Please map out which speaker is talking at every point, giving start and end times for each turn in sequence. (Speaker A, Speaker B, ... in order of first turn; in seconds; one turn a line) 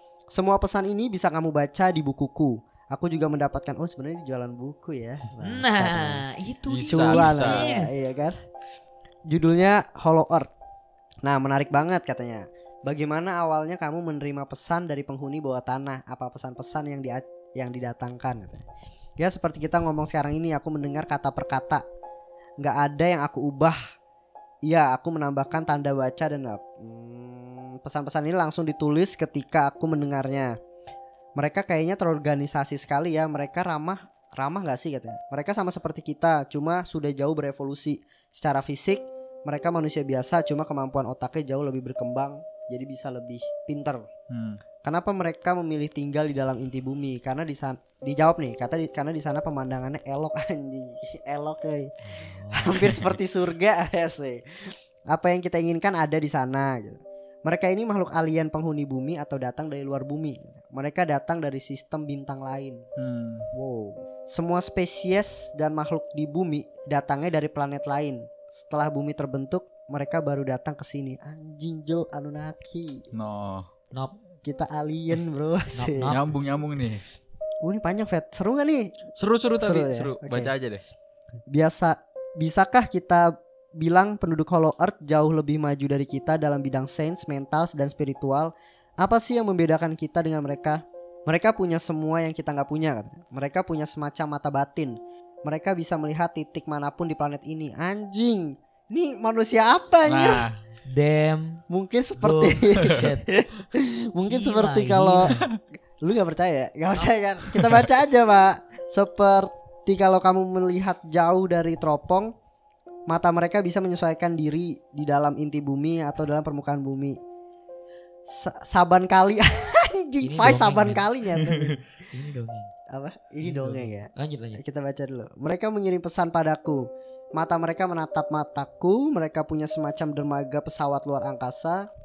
Speaker A: 0.3-6.2
Speaker B: 5.4-8.0
Speaker C: 6.7-7.7
Speaker A: 6.9-8.4
Speaker A: 9.3-10.5
Speaker A: 11.2-18.6
Speaker A: 19.2-21.8
Speaker A: 22.6-23.8
Speaker A: 24.6-30.6
Speaker A: 31.4-44.1
Speaker C: 44.3-44.6
Speaker A: 44.8-62.9
Speaker B: 52.1-53.1
Speaker C: 63.0-63.5
Speaker A: 63.5-73.0
Speaker C: 73.1-73.7
Speaker A: 74.4-76.2
Speaker B: 75.8-76.2
Speaker C: 76.0-77.0
Speaker A: 77.6-79.0
Speaker C: 79.2-80.8
Speaker A: 79.6-80.5
Speaker A: 81.5-100.4
Speaker C: 100.1-100.6
Speaker B: 100.9-101.6
Speaker A: 101.7-105.3
Speaker B: 102.2-103.2
Speaker B: 104.3-105.5
Speaker A: 106.0-112.3
Speaker C: 107.5-107.9
Speaker A: 113.1-117.2
Speaker A: 118.3-121.8
Speaker B: 120.2-121.6
Speaker B: 122.1-122.7
Speaker A: 122.9-131.9
Speaker B: 123.4-124.6